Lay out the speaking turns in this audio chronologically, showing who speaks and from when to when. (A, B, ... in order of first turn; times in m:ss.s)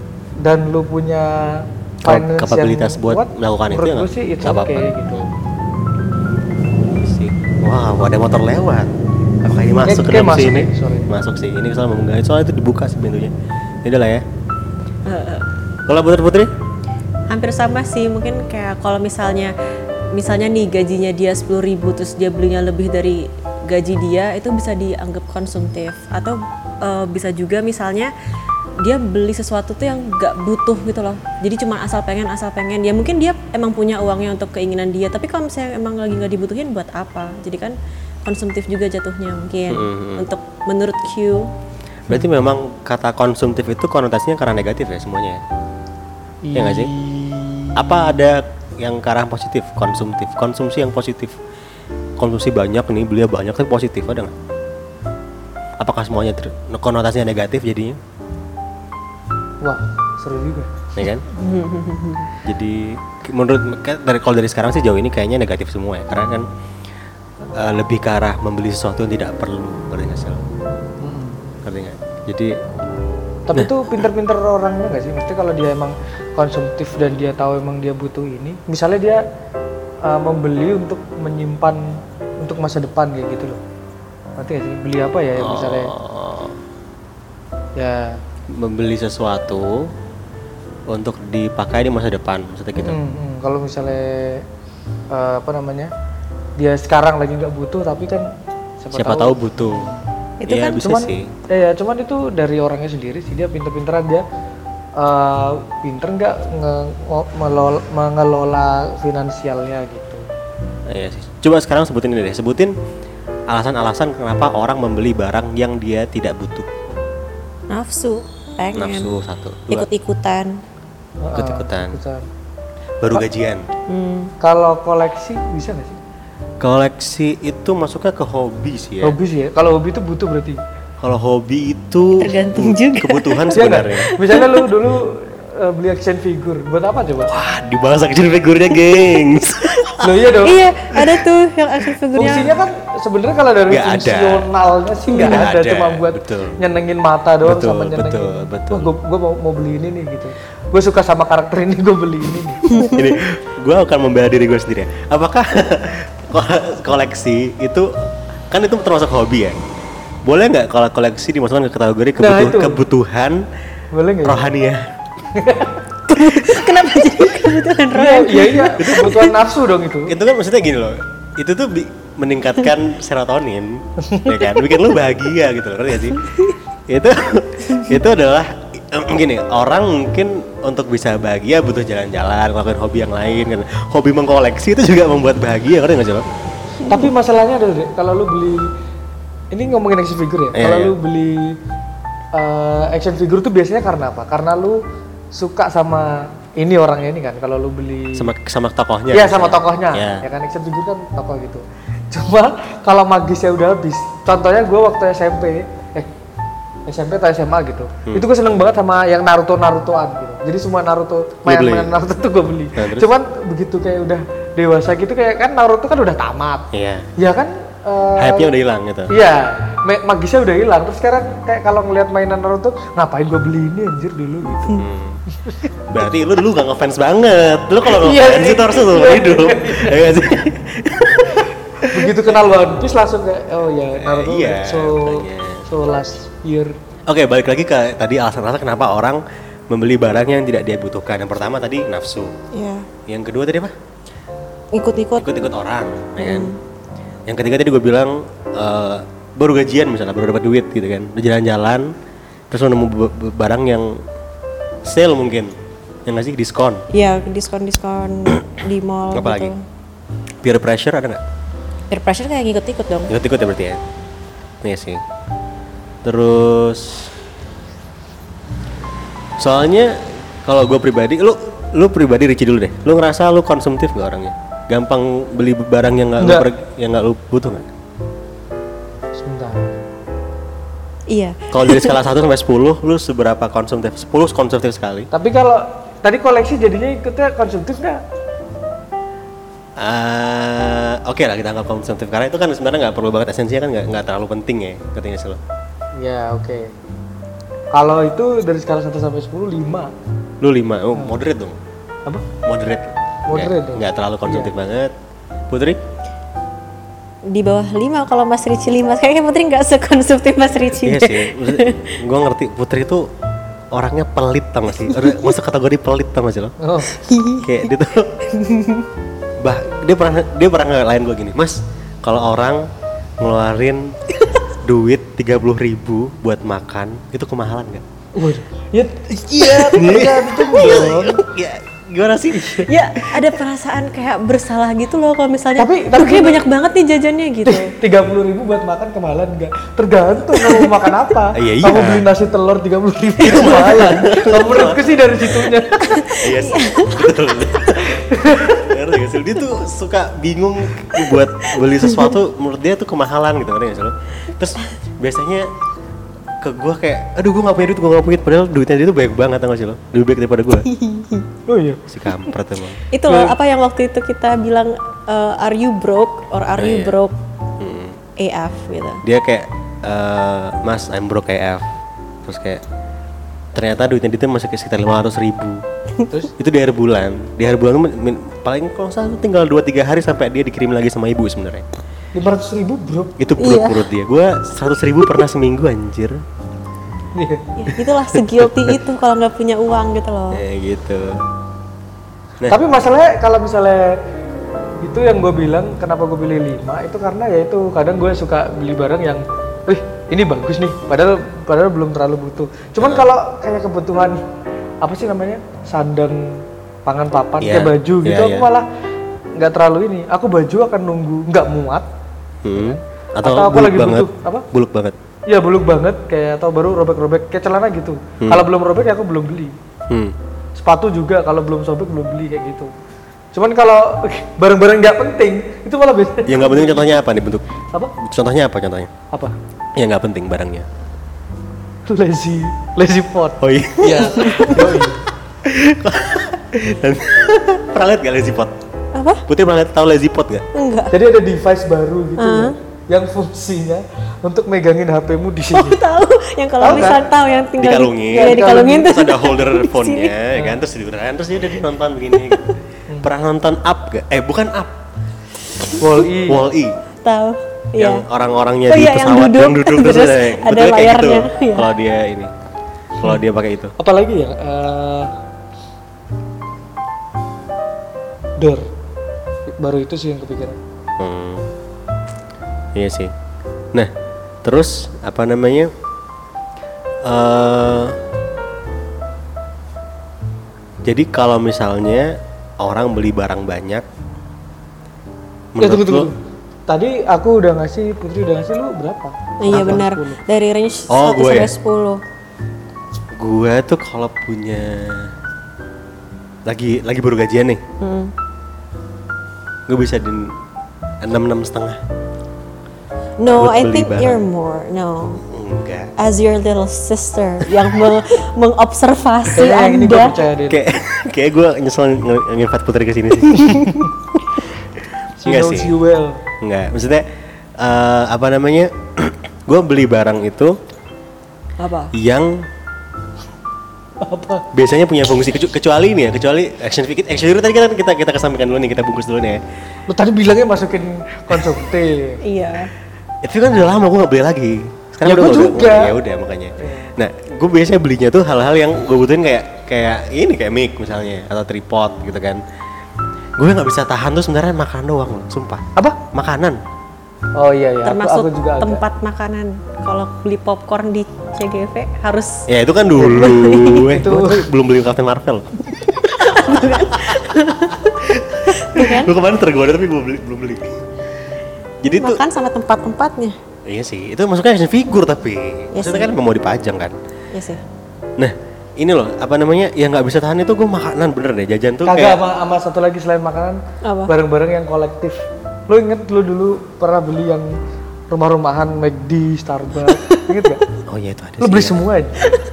0:00.4-0:05.3 A
0:02.0-0:05.3 B
0:07.0-0:13.3 B
0:09.8-0:11.1 A
0:13.8-0:14.2 B
0:15.1-0:15.4 C
0:15.9-0:16.5 B
0:17.3-0:19.5 C
0:20.1-0:28.1 C
0:28.8-0:41.5 C
0:39.7-0:40.3 B
0:42.1-0:45.4 B
0:46.4-0:48.2 A
0:46.6-0:46.9 B
0:47.8-0:51.4 B
0:52.2-0:54.3 B
0:55.8-0:58.0 B
0:59.6-1:00.7 A
1:01.0-1:01.3 B
1:01.3-1:02.3 C
1:02.4-1:06.5 B
1:07.6-1:10.4 B
1:11.0-1:11.4 A
1:11.6-1:12.6 B
1:13.5-1:19.2 A
1:13.6-1:14.0 B
1:20.0-1:23.6 A
1:24.4-1:25.9 A
1:25.4-1:26.6 B
1:27.8-1:28.2 A
1:28.5-1:29.9 B
1:30.9-1:33.0 B
1:32.8-1:34.4 A
1:35.1-1:35.9 A
1:36.6-1:38.3 A
1:38.8-1:40.0 A
1:38.9-1:39.9 B
1:40.4-1:40.8 C
1:40.4-1:41.3 B
1:40.8-1:44.2 A
1:45.0-1:50.2 A
1:50.9-1:52.8 B
1:53.5-1:56.7 B
1:57.7-1:59.1 C
1:58.8-1:59.9 B
1:59.7-2:00.6 C
2:01.2-2:02.3 A
2:01.4-2:02.0 B
2:03.0-2:03.7 B
2:03.9-2:04.3 C
2:04.4-2:06.0 A
2:06.6-2:09.2 B
2:09.0-2:10.6 A
2:11.0-2:14.1 B
2:12.2-2:14.6 C
2:13.5-2:17.3 A
2:17.2-2:20.1 B
2:20.0-2:20.6 A
2:20.4-2:22.5 C
2:20.9-2:21.2 B
2:22.1-2:33.0 A
2:23.7-2:24.5 B
2:25.1-2:25.4 C
2:25.2-2:26.6 B
2:27.4-2:28.9 B
2:32.7-2:33.1 C
2:32.9-2:37.9 B
2:38.5-2:39.6 B
2:40.3-2:43.5 B
2:42.2-2:42.8 A
2:43.9-2:44.4 A
2:44.2-2:44.9 B
2:45.3-2:45.8 A
2:46.1-2:49.3 C
2:47.9-2:50.2 A
2:50.1-2:56.3 B
2:54.0-2:54.3 A
2:56.9-3:06.3 B
3:06.9-3:08.7 A
3:09.5-3:11.6 A
3:10.5-3:11.0 B
3:12.3-3:14.8 A
3:15.3-3:18.3 A
3:18.2-3:20.2 B
3:19.1-3:26.1 A
3:26.9-3:38.5 A
3:31.5-3:31.9 B
3:32.8-3:33.1 B
3:36.7-3:37.1 B
3:38.2-3:39.1 B
3:39.1-3:44.8 A
3:44.7-3:45.2 B
3:45.3-3:45.7 A
3:45.9-3:52.3 B
3:47.9-3:50.2 A
3:51.8-3:56.7 A
3:54.0-3:55.7 B
3:57.1-4:02.3 B
4:02.5-4:02.9 C
4:03.1-4:03.7 B
4:04.7-4:05.3 C
4:05.2-4:06.5 B
4:06.2-4:06.6 C
4:07.3-4:11.9 B
4:12.5-4:14.0 B
4:14.8-4:16.8 B
4:16.9-4:19.6 C
4:19.1-4:19.5 B
4:20.4-4:21.2 B
4:21.9-4:23.1 C
4:23.1-4:23.8 B
4:24.6-4:25.0 B
4:26.0-4:27.1 B
4:29.4-4:37.7 B
4:36.2-4:36.5 A
4:39.2-4:39.7 A
4:41.1-4:42.0 C
4:41.5-4:45.1 B
4:45.1-4:48.0 A
4:49.8-4:55.4 B
4:56.0-4:56.8 A
4:57.7-4:59.9 A
5:00.4-5:01.6 B
5:02.4-5:04.9 B
5:03.3-5:04.5 A
5:05.5-5:05.8 B
5:07.3-5:12.0 C
5:10.7-5:13.1 B
5:13.7-5:16.6 B
5:14.9-5:15.3 C
5:16.6-5:16.9 A
5:16.9-5:17.7 C
5:17.4-5:18.2 B
5:18.3-5:18.9 C
5:19.4-5:22.7 B
5:23.2-5:24.0 B
5:24.6-5:27.8 B
5:28.2-5:31.2 A
5:29.5-5:32.7 B
5:32.3-5:32.7 A
5:32.7-5:37.7 C
5:35.6-5:36.4 A
5:37.4-5:46.1 A
5:41.3-5:42.1 B
5:43.2-5:45.0 B
5:45.8-5:47.1 C
5:46.1-5:55.5 B
5:47.9-5:48.6 A
5:51.0-5:52.2 C
5:56.4-6:00.7 B
6:00.7-6:01.3 C
6:01.5-6:01.8 A
6:01.9-6:02.8 B
6:02.9-6:07.1 C
6:03.1-6:03.3 A
6:06.6-6:07.0 B
6:07.6-6:08.0 B
6:08.2-6:09.0 C
6:09.0-6:11.6 B
6:12.2-6:12.6 B
6:13.5-6:15.6 B
6:16.4-6:21.7 B
6:22.1-6:23.2 A
6:23.2-6:26.2 B
6:23.4-6:23.9 C
6:27.2-6:27.6 A
6:27.6-6:30.4 C
6:28.1-6:28.8 B
6:30.3-6:31.2 B
6:32.5-6:34.0 A
6:34.8-6:44.2 A
6:42.8-6:43.1 B
6:44.8-6:48.7 A
6:47.4-6:48.5 B
6:49.4-6:51.9 A
6:52.4-6:55.0 B
6:52.5-6:54.4 A
6:55.3-6:59.6 A
6:59.9-7:00.2 B
7:00.6-7:02.7 A
7:03.3-7:06.9 A
7:06.3-7:08.9 B
7:09.8-7:10.7 B
7:11.9-7:15.0 A
7:13.4-7:14.8 B
7:15.4-7:18.6 B
7:18.9-7:19.2 C
7:19.3-7:20.5 B
7:20.5-7:21.0 C
7:20.9-7:25.8 A
7:22.2-7:22.6 C
7:25.5-7:30.1 C
7:26.6-7:34.8 B
7:26.6-7:27.0 A
7:28.1-7:28.9 A
7:30.4-7:30.6 A
7:35.8-7:36.4 A
7:36.2-7:36.8 B
7:37.0-7:38.1 C
7:37.8-7:42.3 B
7:38.7-7:41.7 C
7:43.0-7:43.8 B
7:43.8-7:45.1 A
7:48.4-7:48.7 A
7:49.6-7:50.6 A
7:51.0-7:51.5 B
7:52.8-7:53.1 B
7:54.4-7:55.7 B
7:57.0-7:58.0 B
8:00.9-8:03.9 B
8:05.6-8:06.1 B
8:05.6-8:06.2 A
8:06.7-8:10.2 A
8:09.4-8:12.0 C
8:09.5-8:09.8 B
8:10.9-8:11.5 B
8:13.2-8:15.1 B
8:16.5-8:17.6 B
8:17.8-8:18.1 C
8:19.7-8:20.4 B
8:21.0-8:21.8 B
8:23.2-8:25.2 C
8:23.3-8:24.2 B
8:25.3-8:25.9 B
8:26.0-8:30.2 C
8:29.3-8:30.6 A
8:30.5-8:33.8 B
8:33.4-8:33.9 A
8:35.2-8:36.2 A
8:35.2-8:35.8 B
8:36.4-8:37.1 B
8:37.6-8:40.6 B
8:41.6-8:41.9 C
8:41.9-8:42.5 B
8:44.0-8:44.5 A
8:44.5-8:49.4 B
8:49.9-8:52.2 A
8:52.2-8:52.7 C
8:53.2-9:02.4 B
8:55.0-8:56.0 A
8:56.6-8:56.9 A
9:03.4-9:06.6 B
9:07.4-9:08.8 A
9:07.8-9:12.5 C
9:12.5-9:20.8 B
9:13.0-9:14.5 A
9:13.1-9:14.0 C
9:16.2-9:18.0 C
9:18.5-9:19.1 C
9:21.8-9:22.2 B
9:22.0-9:23.4 C
9:23.7-9:27.0 B
9:25.7-9:26.1 C
9:27.3-9:27.6 C
9:28.2-9:32.2 B
9:31.8-9:37.6 A
9:33.8-9:34.1 C
9:38.1-9:40.6 A
9:40.9-9:41.8 B
9:41.4-9:42.4 A